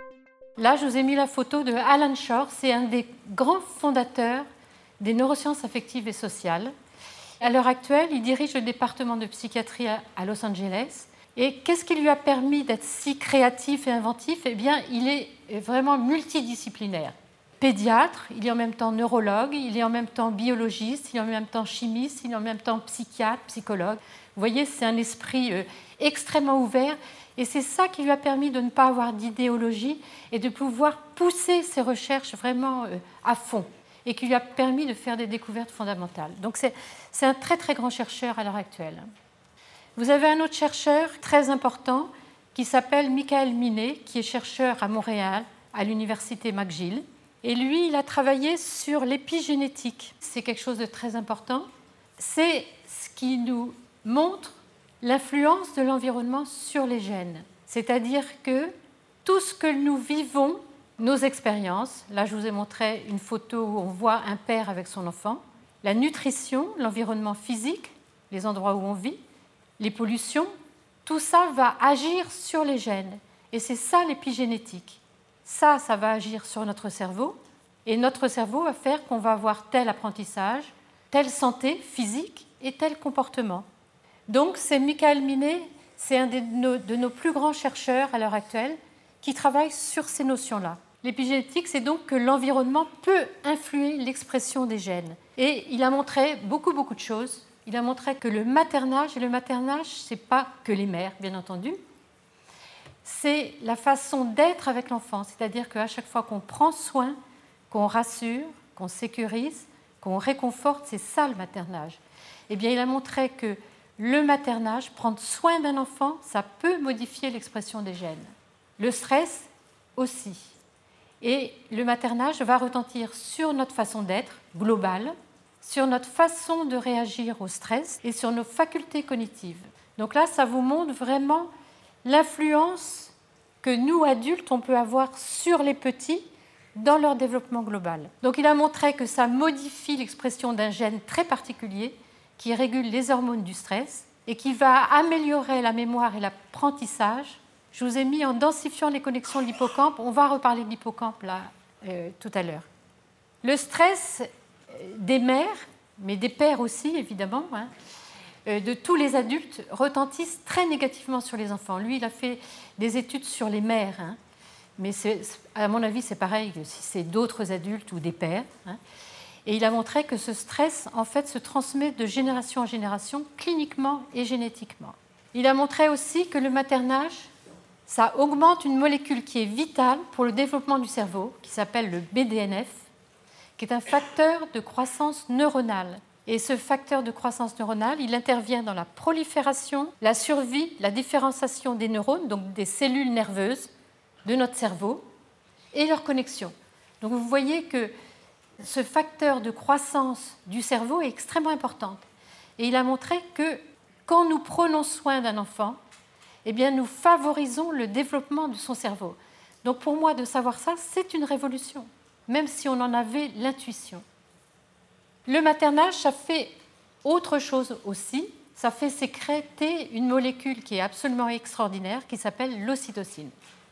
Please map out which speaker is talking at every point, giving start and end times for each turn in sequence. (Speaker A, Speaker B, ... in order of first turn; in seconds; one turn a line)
Speaker A: 0.6-4.4
Speaker A: 5.0-6.7
Speaker A: 7.4-39.1
Speaker A: 40.0-51.6
Speaker A: 52.2-58.7
Speaker A: 59.2-69.2
Speaker A: 69.8-70.5
Speaker A: 71.0-83.7
Speaker A: 84.3-101.8
Speaker A: 103.0-107.2
Speaker A: 107.7-120.5
Speaker A: 121.2-131.5
Speaker A: 132.0-152.7
Speaker A: 153.4-157.7
Speaker A: 158.4-164.2
Speaker A: 164.8-168.8
Speaker A: 169.4-177.3
Speaker A: 177.8-182.9
Speaker A: 183.6-193.7
Speaker A: 194.2-195.0
Speaker A: 195.7-197.9
Speaker A: 198.6-202.0
Speaker A: 202.6-205.8
Speaker A: 206.4-214.0
Speaker A: 215.2-223.3